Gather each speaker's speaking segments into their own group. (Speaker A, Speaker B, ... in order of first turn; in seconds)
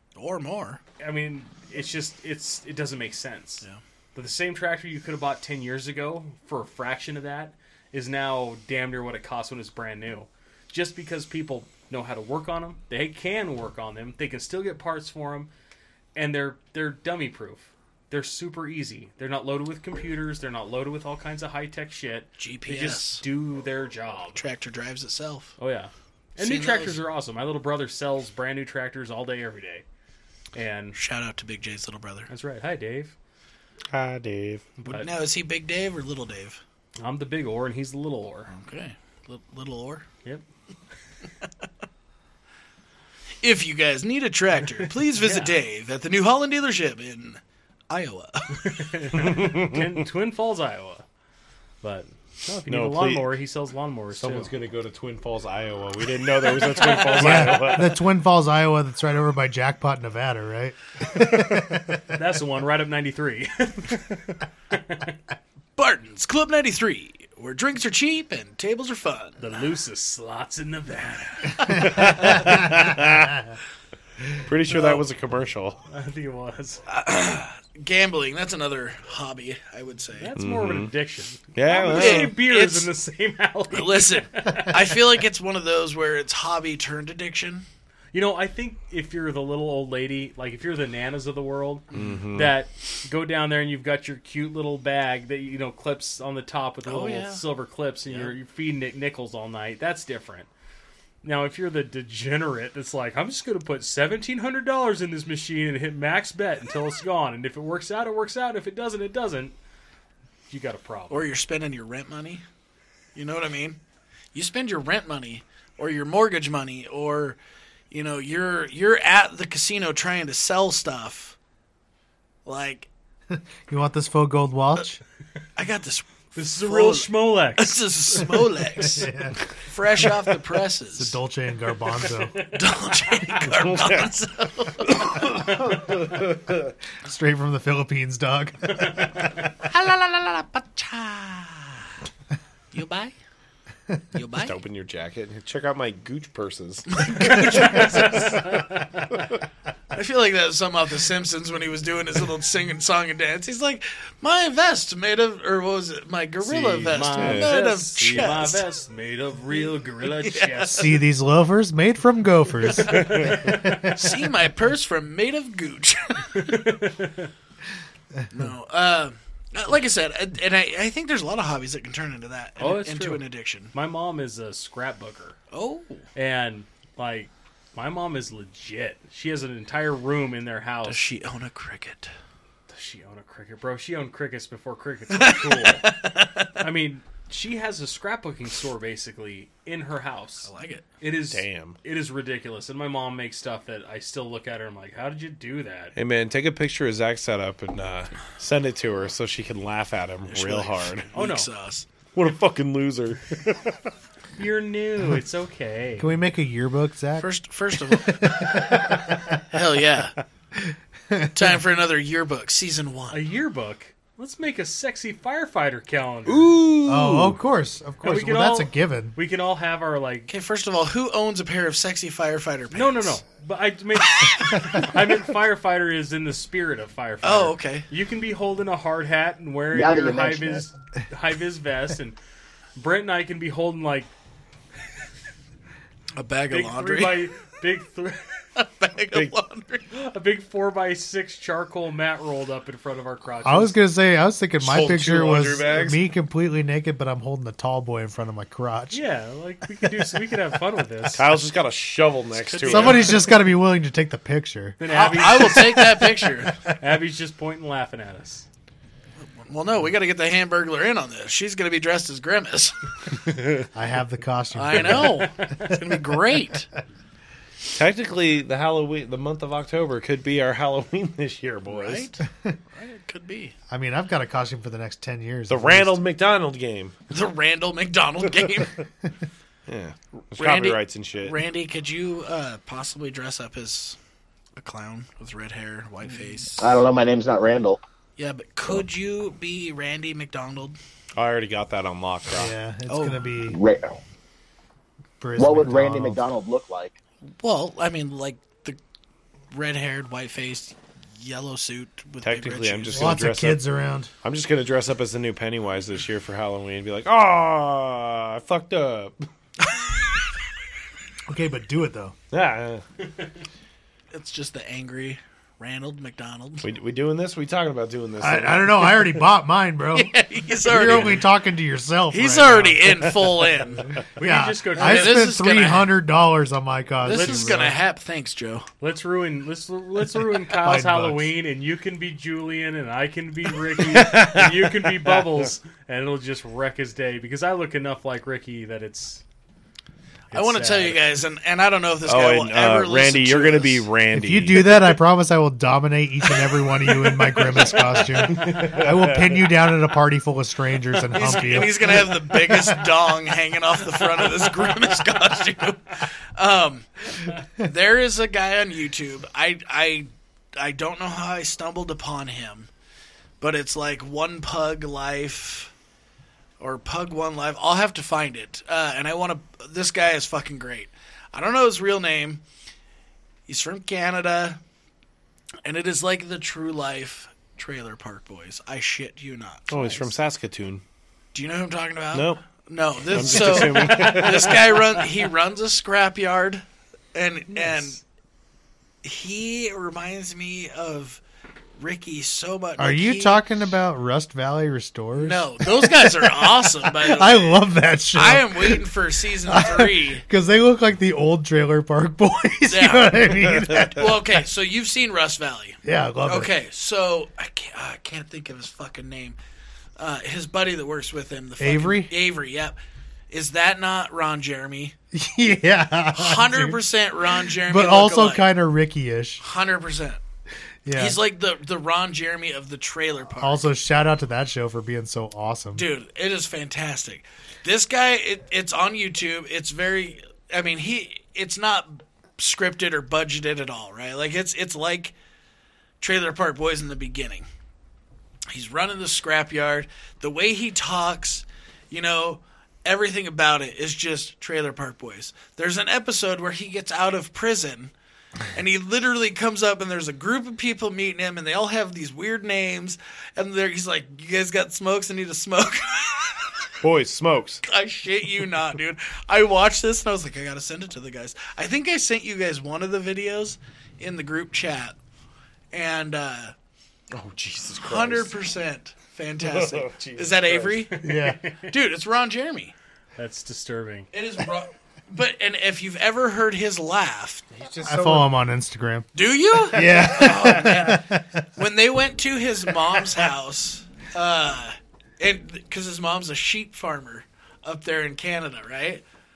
Speaker A: 0.1-0.8, 22.4-23.2, 24.4-25.6, 26.4-26.9, 30.9-32.3, 34.9-36.6, 38.5-40.0, 43.4-48.8, 65.8-69.5, 76.9-80.3, 81.8-82.9, 83.7-87.6, 96.8-97.4, 98.1-98.3, 111.1-112.4, 113.1-113.8, 114.3-117.4, 117.9-121.3, 122.5-122.9, 125.5-131.2, 132.5-135.2, 139.6-141.9, 142.7-143.1, 144.1-144.5, 146.9-148.2, 149.9-158.6, 159.5-161.0, 163.8-166.7, 168.3-173.7, 175.5-176.1, 180.8-182.1, 185.1-186.5, 190.4-190.9, 200.3-201.9, 207.2-210.2, 211.3-213.2, 220.3-223.2, 224.0-224.9, 227.2-227.9, 236.1-237.2, 238.6-239.9, 254.9-256.6, 259.2-262.9, 264.5-266.7, 271.7-273.5, 277.1-278.8, 280.3-284.0, 284.6-286.7, 288.2-290.8, 292.9-293.2, 297.4-298.8, 299.5-303.2, 309.6-310.2, 314.1-316.6, 319.9-321.2, 322.1-323.9, 324.8-325.9, 327.0-328.7, 340.3-343.9, 351.1-362.7, 363.4-365.7, 366.6-372.4, 373.5-374.6, 375.6-380.1, 381.3-386.6, 387.1-388.0, 389.0-391.2, 391.8-393.4, 395.2-400.2, 402.7-409.4, 410.0-412.8, 413.3-414.9, 416.1-418.5, 419.4-420.2, 420.9-423.7, 425.7-435.1, 436.0-437.4, 438.5-447.9, 448.5-456.7, 457.6-464.9, 465.7-466.5, 467.8-471.0, 471.6-472.7, 474.1-477.5, 479.1-489.0
Speaker B: 1.0-15.5, 16.1-24.4, 25.6-29.8, 30.5-31.0, 32.3-33.1, 34.8-35.1, 37.0-38.5, 45.1-45.6, 48.5-51.0, 51.8-54.5, 56.4-58.0, 62.1-65.2, 69.4-72.6, 75.9-76.8, 80.2-84.9, 88.1-100.5, 101.2-109.5, 110.5-111.2, 126.3-128.4, 132.3-133.4, 138.8-139.2, 147.3-149.2, 156.4-161.0, 162.7-164.0, 166.3-167.3, 172.6-175.4, 176.1-181.0, 182.7-185.9, 186.6-195.9, 201.1-201.5, 204.4-206.1, 213.1-216.6, 218.0-220.3, 222.7-232.2, 232.8-234.1, 236.5-238.3, 239.9-243.8, 248.9-251.2, 252.4-253.2, 254.8-256.0, 256.7-258.4, 265.1-265.8, 324.2-325.3, 327.1-327.7, 328.8-339.2, 340.3-341.0, 348.0-348.8, 383.3-385.0, 470.9-471.7, 473.2-474.1
Speaker C: 33.9-34.7, 49.2-49.9, 52.7-53.4, 54.1-58.0, 71.7-73.5, 74.4-75.8, 80.3-80.9, 81.5-82.3, 91.9-92.5, 133.5-134.1, 135.0-136.7, 144.4-149.4, 157.2-157.5, 191.3-191.8, 195.9-201.1, 202.1-203.9, 216.3-217.4, 244.6-246.0, 251.1-253.2, 263.2-263.6, 267.7-272.1, 275.5-276.9, 279.7-281.4, 291.1-292.5, 302.2-303.6, 304.2-309.2, 312.3-312.8, 316.6-319.1, 333.9-335.5, 342.1-344.9, 348.3-349.3, 379.7-380.8, 382.1-382.4, 383.1-384.7, 456.8-457.6, 467.1-468.3, 469.4-470.9, 477.5-478.3
Speaker D: 57.1-62.0, 123.3-125.0, 128.8-129.4, 130.9-132.4, 137.0-139.2, 160.7-164.1, 206.0-209.3, 210.6-211.4, 216.8-219.2, 243.4-249.0, 252.7-254.8, 263.7-265.8, 273.7-276.0, 292.3-293.6, 295.2-296.2, 302.9-304.1, 311.3-312.1, 318.2-322.9, 324.2-327.8, 330.4-331.3, 344.1-352.7, 392.8-398.9, 399.4-404.3, 405.8-406.5, 411.6-412.1, 415.1-416.8, 417.4-419.4, 420.8-421.2, 423.4-425.9, 471.0-471.4, 477.8-479.1, 479.6-481.4
Speaker E: 229.7-230.6, 286.6-287.8, 293.4-294.0, 295.4-296.9